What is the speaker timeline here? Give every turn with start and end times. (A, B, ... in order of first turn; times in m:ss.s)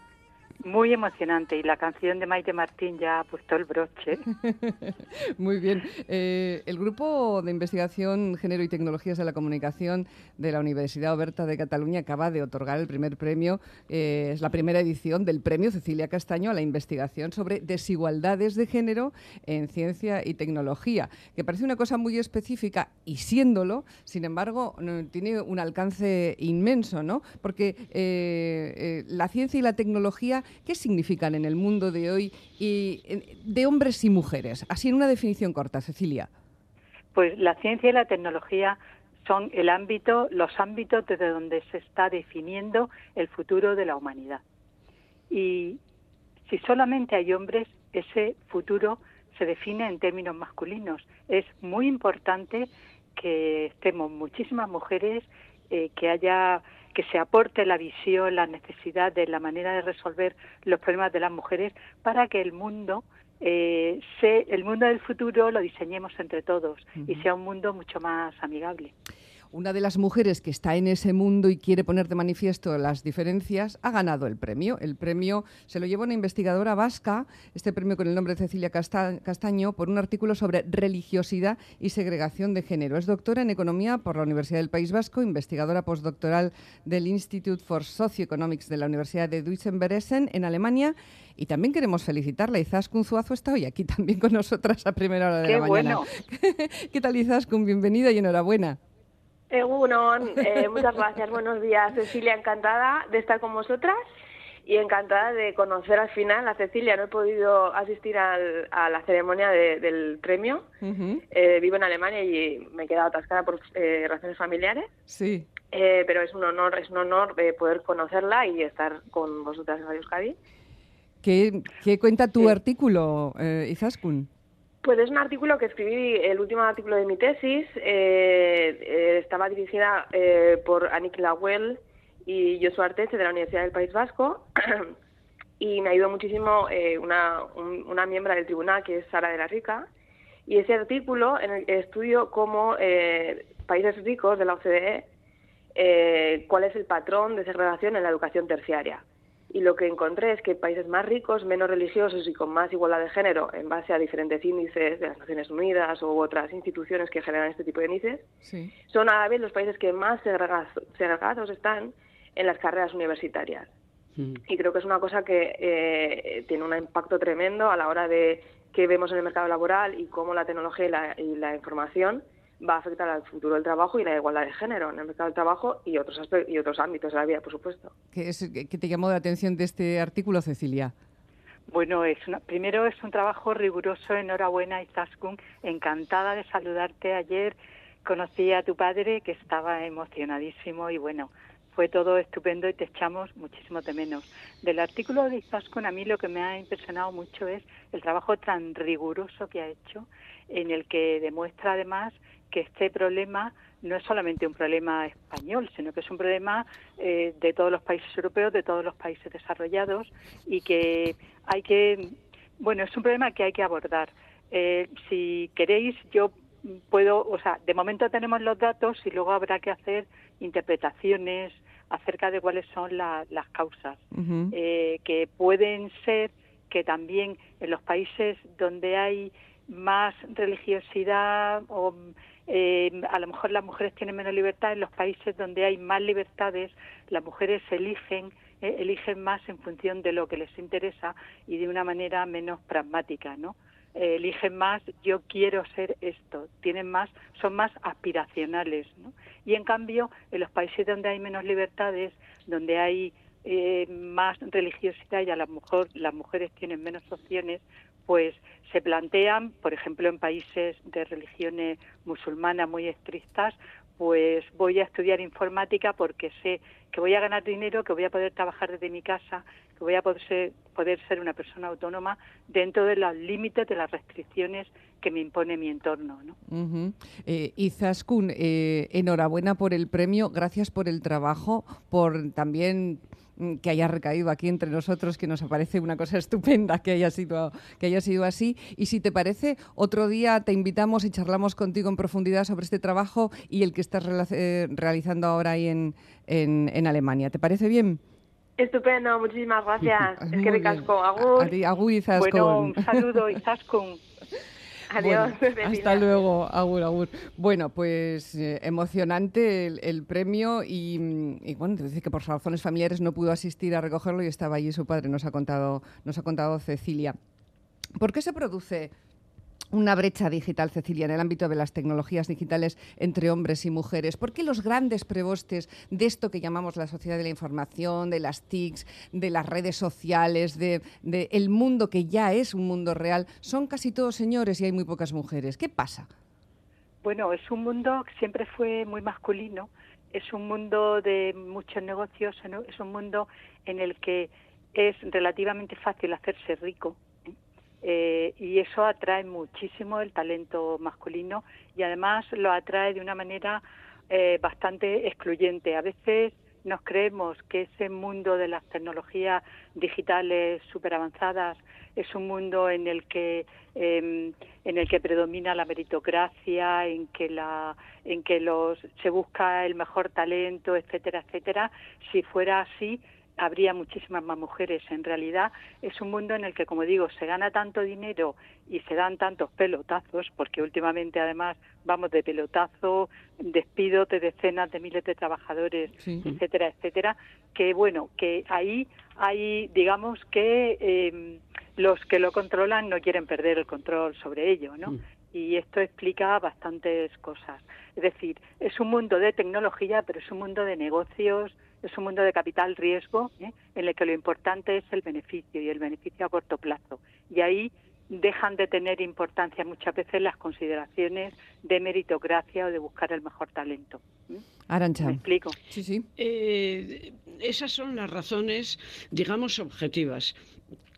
0:00.6-0:04.2 A
0:04.2-0:36.3 B
0:37.1-0:44.4 A
0:45.3-0:45.8 A
0:46.5-1:08.9 A
1:07.0-1:07.2 B
1:09.5-1:38.8 B
1:35.4-1:36.1 A
1:39.5-1:44.0 C
1:44.6-1:50.6 C
1:50.8-1:51.2 B
1:51.3-1:54.9 C
1:55.1-1:55.5 B
1:55.7-2:00.4 C
2:01.2-2:04.3 B
2:04.8-2:14.9 C
2:15.6-2:19.9 C
2:20.5-2:25.1 C
2:25.8-2:38.3 C
2:38.4-2:38.7 B
2:38.9-2:43.7 C
2:44.5-2:57.9 C
2:58.1-3:00.9 B
3:01.7-4:36.4 A
3:44.1-3:44.5 B
4:36.5-4:58.0 B
4:58.6-5:01.5 C
5:00.2-5:03.0 B
5:02.1-5:04.0 A
5:04.9-5:06.1 C
5:04.9-5:17.2 B
5:18.0-5:18.9 B
5:19.7-5:36.1 B
5:37.0-5:47.0 A
5:47.8-6:54.4 A
6:26.0-6:26.2 B
6:54.7-6:56.1 B
6:55.0-6:55.6 A
6:56.2-7:00.3 D